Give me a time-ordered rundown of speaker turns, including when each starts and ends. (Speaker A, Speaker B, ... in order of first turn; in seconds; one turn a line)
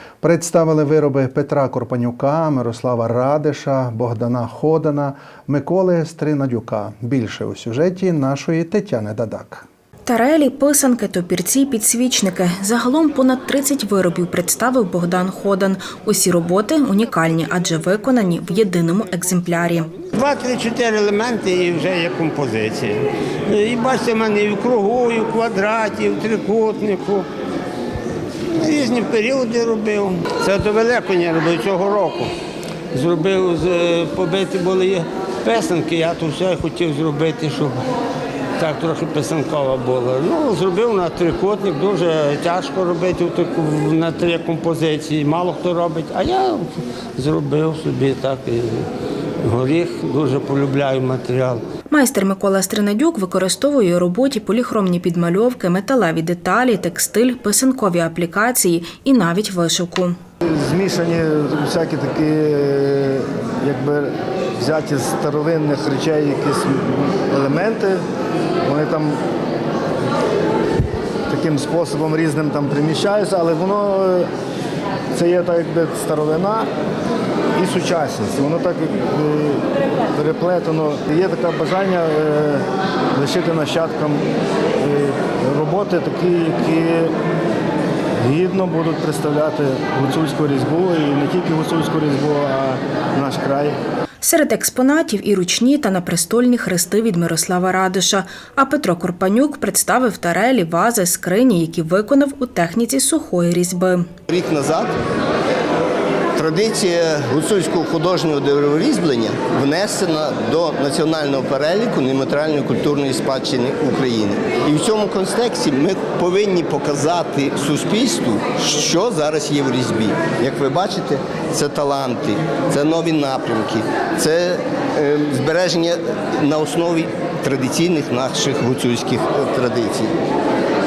Speaker A: 0.2-9.6
Speaker B: 10.1-19.9
Speaker C: 20.1-27.3
Speaker C: 28.5-32.3
Speaker C: 32.9-37.8
Speaker C: 38.6-48.9
Speaker C: 49.4-51.6
Speaker B: 51.9-60.1
Speaker D: 60.4-68.0
Speaker D: 68.6-69.2
Speaker D: 71.3-74.3
Speaker D: 75.1-76.7
Speaker D: 77.5-84.2
Speaker D: 84.8-87.1
Speaker D: 88.2-93.8
Speaker B: 94.2-104.0
Speaker E: 104.3-104.9
Speaker E: 106.3-130.1